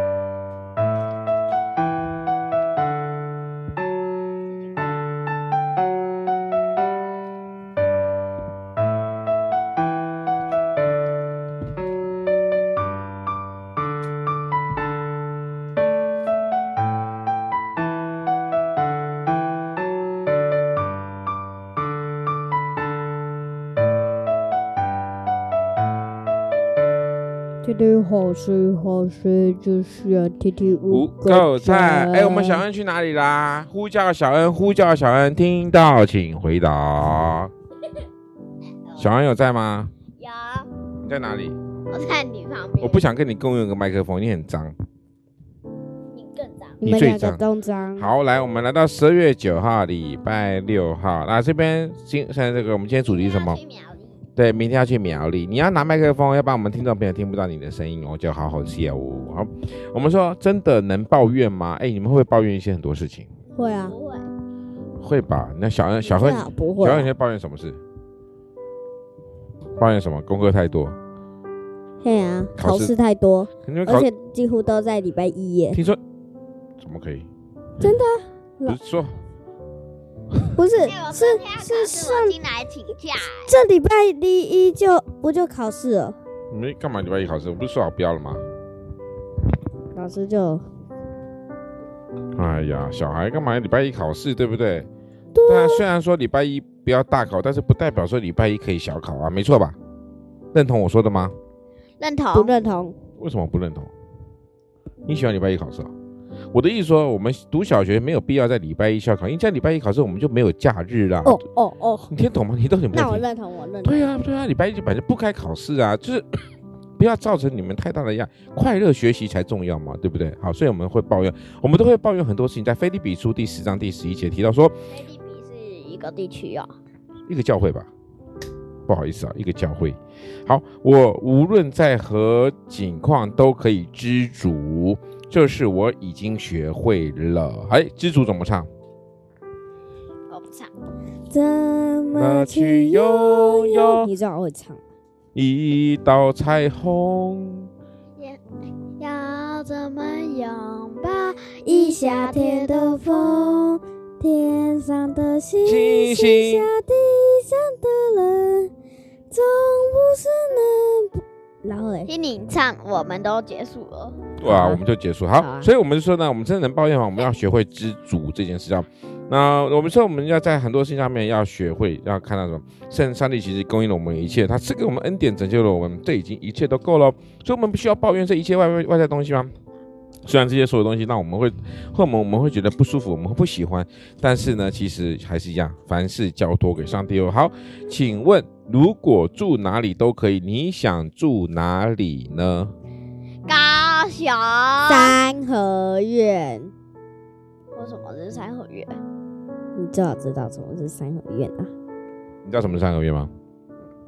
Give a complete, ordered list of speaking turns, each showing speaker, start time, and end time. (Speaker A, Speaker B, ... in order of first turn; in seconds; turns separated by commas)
Speaker A: 4.5-5.0, Speaker B: 27.6-32.6, Speaker C: 30.9-37.5, Speaker C: 39.0-39.9, Speaker A: 40.1-40.7, Speaker C: 41.0-41.6, Speaker A: 41.9-43.0, Speaker C: 42.8-44.7, Speaker A: 46.1-46.8, Speaker B: 46.8-48.1, Speaker C: 46.8-47.4, Speaker C: 48.0-53.6, Speaker A: 53.0-54.2, Speaker C: 54.4-63.3, Speaker B: 63.5-63.9, Speaker A: 63.6-64.3, Speaker C: 65.0-67.8, Speaker B: 66.0-67.1, Speaker C: 69.8-71.0, Speaker B: 72.0-75.8, Speaker C: 72.5-72.9, Speaker C: 73.6-74.1, Speaker C: 75.7-76.0, Speaker C: 76.8-77.3, Speaker B: 77.8-78.8, Speaker C: 78.7-79.2, Speaker B: 80.5-82.4, Speaker A: 80.8-83.5, Speaker B: 83.5-86.2, Speaker C: 86.5-88.4, Speaker B: 89.9-90.6, Speaker C: 92.3-94.9, Speaker B: 95.3-95.8, Speaker C: 95.5-99.8, Speaker C: 100.5-101.3, Speaker A: 102.0-102.5, Speaker B: 102.3-103.0, Speaker C: 103.2-103.9, Speaker C: 105.0-105.9, Speaker C: 106.5-111.4, Speaker B: 111.2-112.1, Speaker C: 112.1-113.2, Speaker B: 112.9-114.2, Speaker C: 113.8-116.4, Speaker C: 117.0-124.7, Speaker A: 124.9-126.7, Speaker C: 127.3-127.9, Speaker C: 128.9-138.7, Speaker A: 140.3-140.7, Speaker B: 141.3-144.8, Speaker C: 142.1-144.1, Speaker C: 145.3-147.7, Speaker A: 149.0-153.4, Speaker B: 151.7-158.7, Speaker C: 155.6-156.7, Speaker B: 159.3-162.1, Speaker A: 162.1-164.3, Speaker C: 164.4-179.5, Speaker B: 164.4-164.8, Speaker B: 165.3-165.7, Speaker C: 180.2-192.7, Speaker A: 193.5-195.2, Speaker B: 194.8-196.7, Speaker A: 197.7-199.0, Speaker B: 199.8-201.7, Speaker C: 202.4-203.3